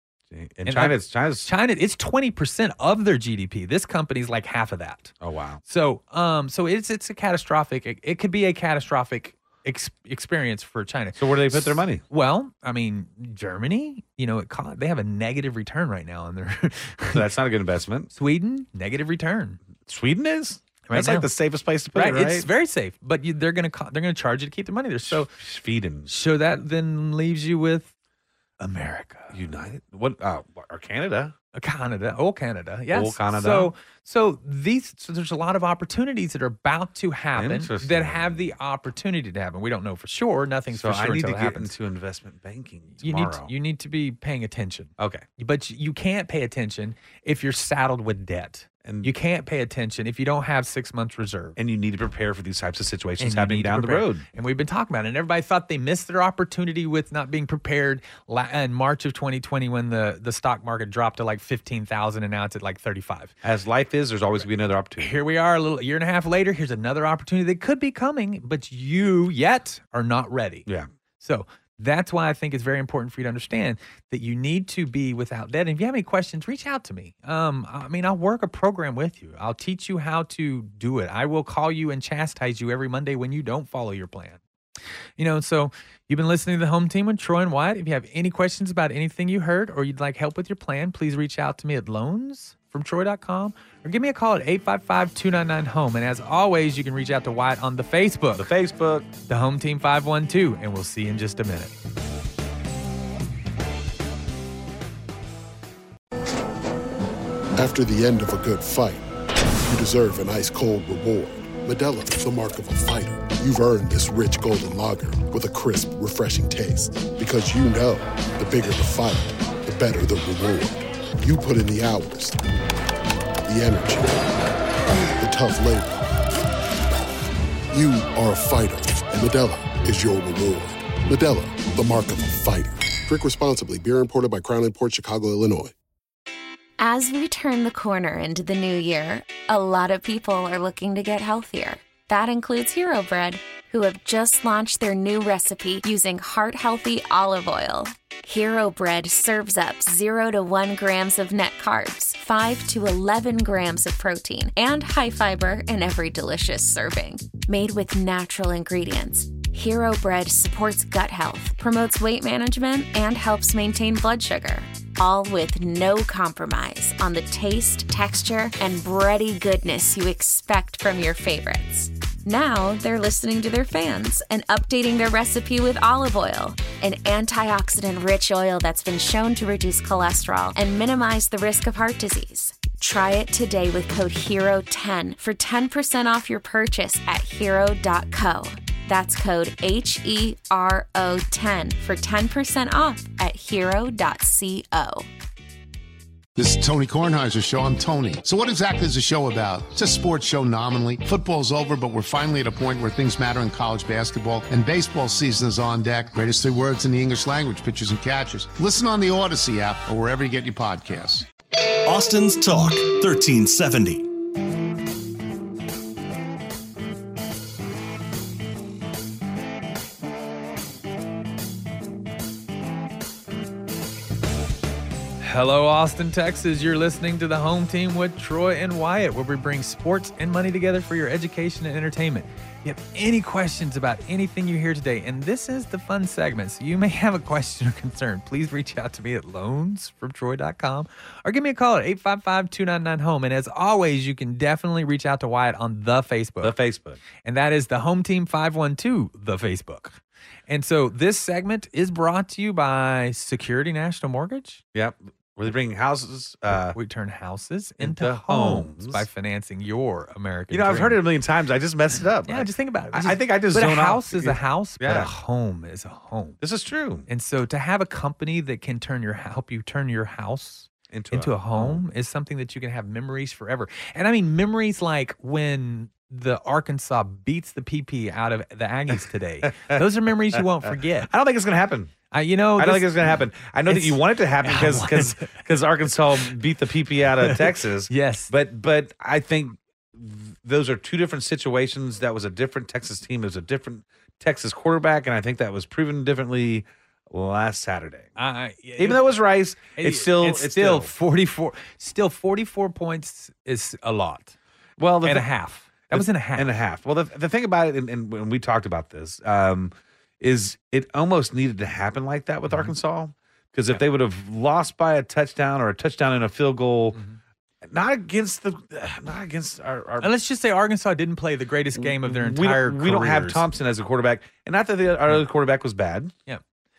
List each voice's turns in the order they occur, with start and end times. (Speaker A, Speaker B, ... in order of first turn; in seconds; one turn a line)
Speaker A: 0.3-1.5
Speaker B: 0.7-5.1
Speaker A: 5.2-5.6
Speaker B: 5.7-17.2
Speaker A: 11.2-12.0
Speaker A: 17.1-18.1
Speaker B: 18.1-19.6
Speaker A: 19.8-22.5
Speaker B: 20.9-21.3
Speaker B: 21.9-25.3
Speaker A: 25.1-26.1
Speaker B: 26.1-27.9
Speaker B: 28.6-29.4
Speaker A: 29.3-31.4
Speaker B: 31.6-41.7
Speaker A: 32.9-33.7
Speaker A: 37.4-38.5
Speaker A: 40.7-43.5
Speaker B: 43.0-51.6
Speaker A: 45.0-45.3
Speaker A: 48.9-49.1
Speaker A: 51.6-54.2
Speaker B: 53.2-63.4
Speaker A: 63.4-65.2
Speaker B: 65.0-70.7
Speaker B: 71.2-84.4
Speaker B: 85.2-98.5
Speaker A: 98.3-99.1
Speaker B: 99.3-101.7
Speaker C: 107.6-109.1
Speaker C: 109.7-122.4
Speaker C: 123.5-124.2
Speaker C: 125.2-126.1
Speaker C: 127.7-135.7
Speaker D: 136.8-195.1
Speaker E: 196.3-211.3
Speaker F: 211.8-214.1
Speaker B: 225.2-246.6
Speaker A: 246.4-247.0
Speaker B: 247.2-254.6
Speaker A: 254.7-256.8
Speaker B: 256.5-261.0
Speaker A: 257.8-259.1
Speaker A: 260.5-265.1
Speaker B: 262.3-266.4
Speaker A: 266.4-267.1
Speaker B: 267.1-281.1
Speaker A: 270.9-271.8
Speaker A: 279.4-279.8
Speaker A: 280.3-281.9
Speaker B: 282.1-285.4
Speaker A: 282.6-298.1
Speaker B: 287.2-288.3
Speaker B: 298.2-299.1
Speaker A: 298.8-300.9
Speaker B: 299.7-304.4
Speaker A: 304.8-305.3
Speaker B: 305.0-306.5
Speaker A: 305.9-317.0
Speaker B: 312.5-312.7
Speaker A: 317.6-320.1
Speaker B: 320.0-323.4
Speaker A: 321.8-326.1